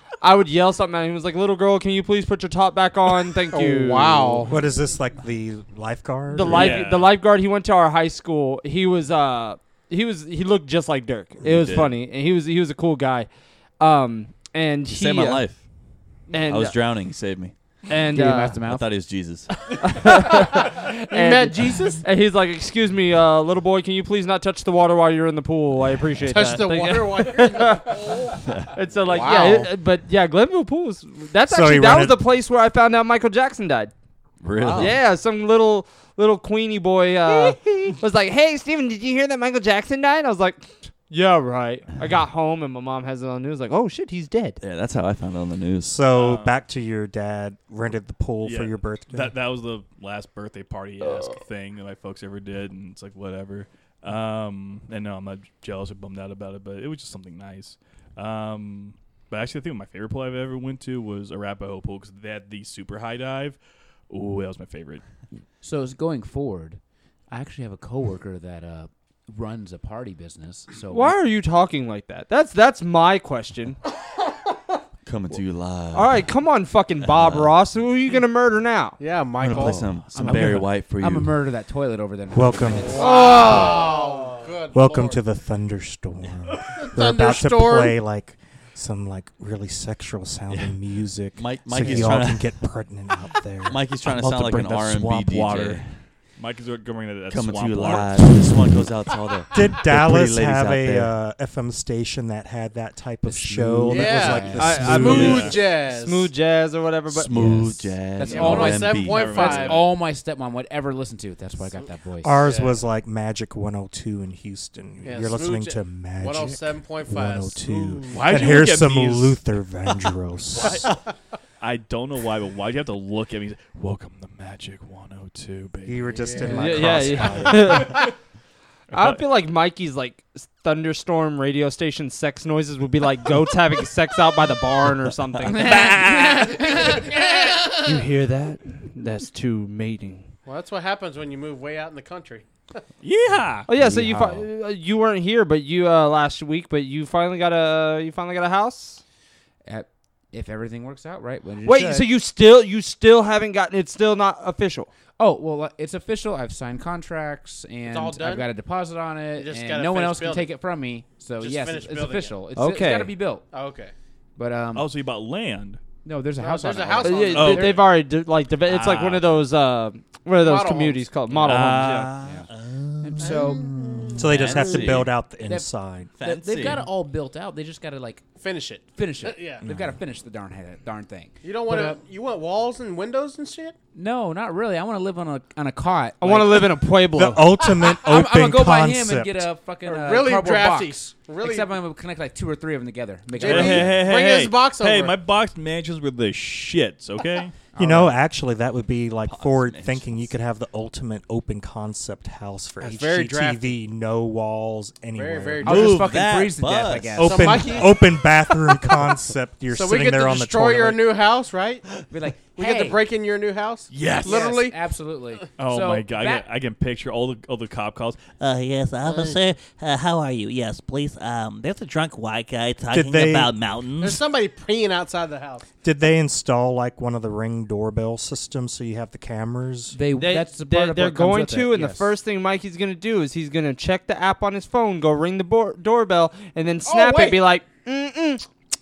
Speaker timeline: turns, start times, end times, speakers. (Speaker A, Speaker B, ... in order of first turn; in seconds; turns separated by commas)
Speaker A: 0.2-4.4, Speaker B: 3.5-4.5, Speaker C: 4.5-6.8, Speaker A: 6.3-15.4, Speaker D: 6.5-7.1, Speaker E: 11.4-11.9, Speaker E: 14.9-15.6, Speaker A: 16.3-16.8, Speaker E: 16.5-17.5, Speaker A: 17.9-18.6, Speaker F: 18.1-18.9, Speaker E: 18.6-19.8, Speaker A: 19.8-28.2, Speaker B: 20.7-22.0, Speaker B: 26.2-29.7, Speaker E: 28.4-28.7, Speaker A: 28.7-33.9, Speaker C: 31.5-32.2, Speaker E: 34.4-35.0, Speaker B: 34.6-34.9, Speaker A: 34.8-44.6, Speaker B: 37.3-37.9, Speaker E: 44.6-46.0, Speaker C: 45.9-49.3, Speaker D: 46.1-46.5, Speaker D: 48.4-63.6, Speaker D: 64.1-65.0, Speaker F: 65.6-71.2, Speaker A: 70.9-73.8, Speaker E: 75.0-76.3, Speaker A: 75.9-79.0, Speaker E: 77.0-77.5, Speaker B: 79.0-80.0, Speaker E: 79.4-81.4, Speaker F: 79.6-83.9, Speaker C: 82.3-83.0, Speaker B: 82.8-85.2, Speaker A: 83.0-83.9, Speaker C: 84.7-95.5, Speaker B: 86.8-88.0, Speaker E: 91.3-92.5, Speaker E: 93.7-96.0, Speaker D: 95.4-98.5, Speaker E: 97.3-101.1, Speaker C: 99.5-105.5, Speaker F: 103.2-105.2, Speaker B: 103.9-106.3, Speaker A: 104.6-107.3, Speaker D: 104.6-105.5, Speaker E: 107.1-109.5, Speaker F: 107.3-112.4, Speaker B: 108.3-109.8, Speaker D: 108.3-109.9, Speaker C: 112.2-120.9, Speaker B: 112.4-112.8, Speaker B: 115.0-118.6, Speaker D: 118.0-119.4, Speaker D: 120.5-120.9, Speaker B: 120.7-121.0, Speaker D: 121.6-126.1, Speaker C: 125.9-128.0, Speaker B: 126.1-126.8, Speaker A: 126.5-128.1, Speaker A: 128.9-137.1, Speaker D: 128.9-129.2, Speaker F: 135.4-137.2, Speaker D: 135.6-136.6, Speaker B: 136.8-138.0, Speaker A: 137.8-140.3, Speaker B: 140.4-142.8, Speaker D: 143.0-143.7, Speaker A: 143.7-149.0, Speaker F: 143.7-144.5, Speaker F: 149.6-152.1, Speaker A: 151.6-154.9, Speaker F: 155.2-163.4, Speaker B: 157.9-158.5, Speaker B: 159.3-160.5, Speaker B: 161.4-162.4, Speaker A: 162.6-163.1, Speaker B: 163.5-163.9, Speaker F: 164.4-164.9, Speaker D: 164.7-165.8, Speaker F: 166.0-167.8, Speaker B: 166.4-167.6, Speaker A: 167.0-172.1, Speaker D: 167.3-167.8, Speaker D: 168.7-169.3, Speaker B: 170.4-171.1, Speaker D: 171.4-172.4, Speaker F: 172.2-172.5, Speaker F: 173.0-178.3, Speaker G: 173.2-173.5, Speaker B: 173.2-174.1, Speaker C: 174.2-176.1, Speaker E: 174.2-175.1, Speaker E: 176.2-176.9, Speaker B: 178.4-179.6, Speaker F: 178.9-182.0, Speaker C: 179.7-179.9, Speaker B: 181.4-183.8, Speaker F: 183.9-186.9, Speaker A: 186.2-187.5, Speaker C: 187.1-189.5, Speaker F: 188.0-194.0, Speaker B: 189.8-191.8, Speaker B: 193.4-195.2, Speaker D: 193.4-197.6, Speaker F: 197.7-198.2, Speaker C: 197.8-205.9, Speaker E: 199.3-200.3, Speaker B: 202.8-203.7, Speaker B: 205.2-206.1, Speaker F: 205.6-207.9, Speaker E: 205.6-207.6, Speaker C: 207.2-211.0, Speaker B: 207.2-208.1, Speaker B: 209.7-214.8, Speaker F: 212.1-213.0, Speaker D: 213.9-214.4, Speaker F: 214.2-216.5, Speaker D: 215.6-218.2, Speaker G: 218.4-224.2, Speaker B: 219.1-219.4, Speaker C: 222.9-223.5, Speaker B: 224.0-225.7, Speaker C: 225.8-230.0, Speaker F: 229.9-232.1, Speaker A: 230.2-238.5, Speaker B: 236.9-237.4